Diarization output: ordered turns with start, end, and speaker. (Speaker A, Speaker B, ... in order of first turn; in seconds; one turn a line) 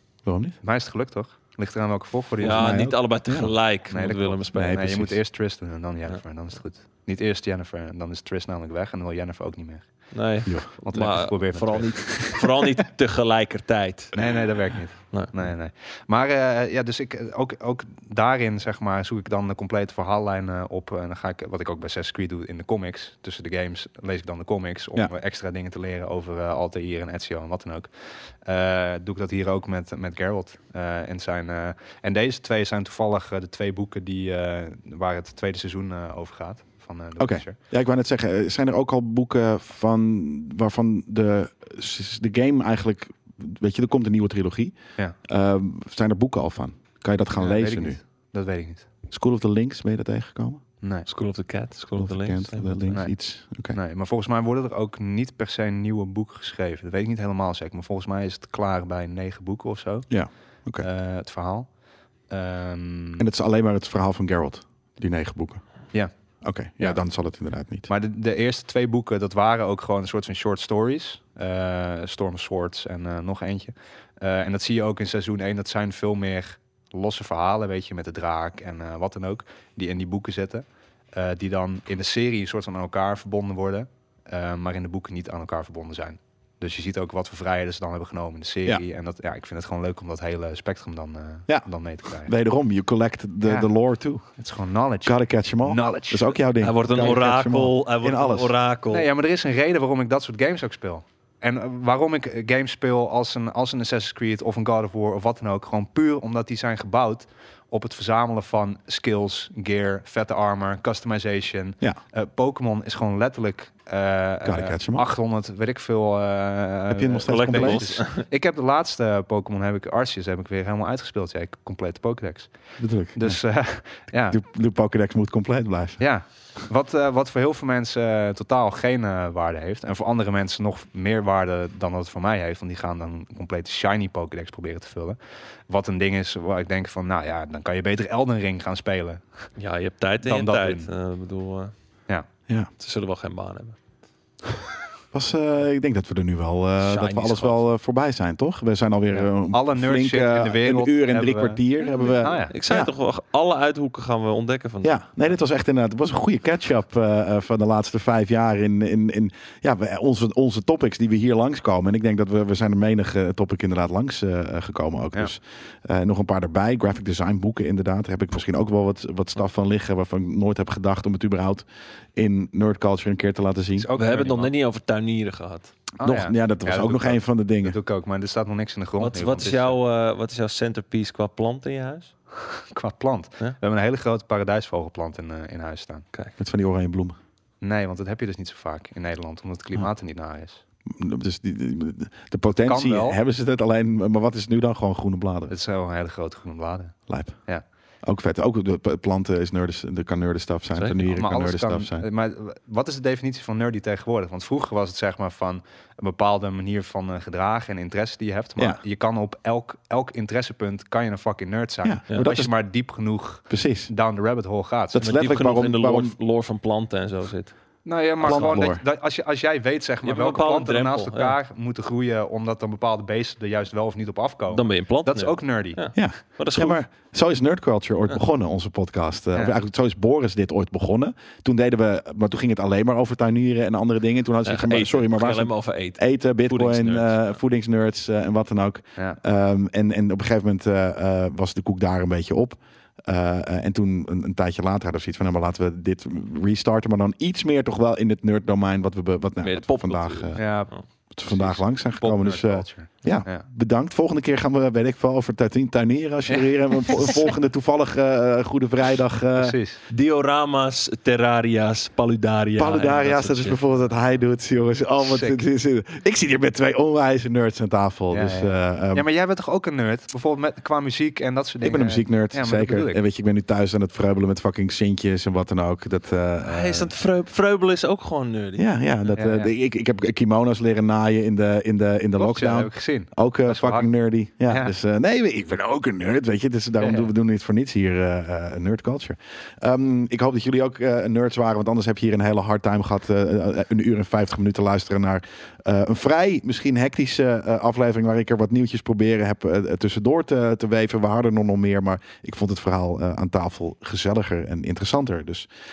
Speaker A: 0.2-0.6
Speaker B: 0.6-2.9
Speaker A: 2.4-3.6
Speaker C: 2.4-5.1
Speaker B: 3.9-12.7
Speaker A: 4.5-5.2
Speaker C: 10.1-15.3
Speaker A: 10.5-10.7
Speaker B: 14.2-37.6
Speaker A: 37.2-48.0
Speaker B: 47.4-48.9
Speaker A: 49.1-50.6
Speaker B: 50.8-51.1
Speaker C: 51.1-53.1
Speaker A: 51.9-53.8
Speaker B: 52.9-63.2
Speaker A: 60.1-60.9
Speaker A: 63.2-67.9
Speaker B: 65.9-92.4
Speaker A: 91.5-94.4
Speaker B: 93.4-96.4
Speaker A: 95.0-98.6
Speaker C: 96.6-99.1
Speaker B: 98.9-124.4
Speaker A: 114.5-115.0
Speaker A: 116.9-118.0
Speaker C: 117.3-118.3
Speaker A: 122.8-126.3
Speaker B: 126.0-139.6
Speaker C: 139.6-142.0
Speaker B: 140.2-140.9
Speaker C: 142.8-144.0
Speaker A: 145.1-152.9
Speaker C: 146.8-147.7
Speaker B: 149.1-152.6
Speaker C: 152.5-155.0
Speaker A: 154.8-173.9
Speaker B: 173.8-174.5
Speaker C: 174.0-175.9
Speaker B: 176.0-179.8
Speaker A: 176.0-177.8
Speaker C: 179.0-182.2
Speaker B: 182.7-186.1
Speaker A: 186.4-187.2
Speaker B: 187.6-190.6
Speaker A: 190.9-195.5
Speaker B: 192.7-193.2
Speaker B: 195.5-197.7
Speaker A: 197.1-202.1
Speaker C: 200.8-201.2
Speaker B: 201.1-215.1
Speaker A: 208.6-208.8
Speaker A: 211.8-213.9
Speaker A: 214.9-216.2
Speaker C: 215.0-218.7
Speaker B: 217.8-225.8
Speaker A: 218.2-218.8
Speaker C: 220.0-221.4
Speaker C: 224.5-226.8
Speaker A: 225.9-259.6
Speaker C: 234.4-237.4
Speaker C: 249.4-250.9
Speaker B: 250.4-253.4
Speaker B: 259.4-259.8
Speaker C: 259.9-264.1
Speaker A: 262.6-269.1
Speaker B: 265.0-265.4
Speaker B: 268.1-273.0
Speaker A: 271.6-276.9
Speaker C: 276.4-279.2
Speaker A: 278.6-305.5
Speaker B: 279.1-279.5
Speaker B: 282.2-284.7
Speaker B: 286.8-287.1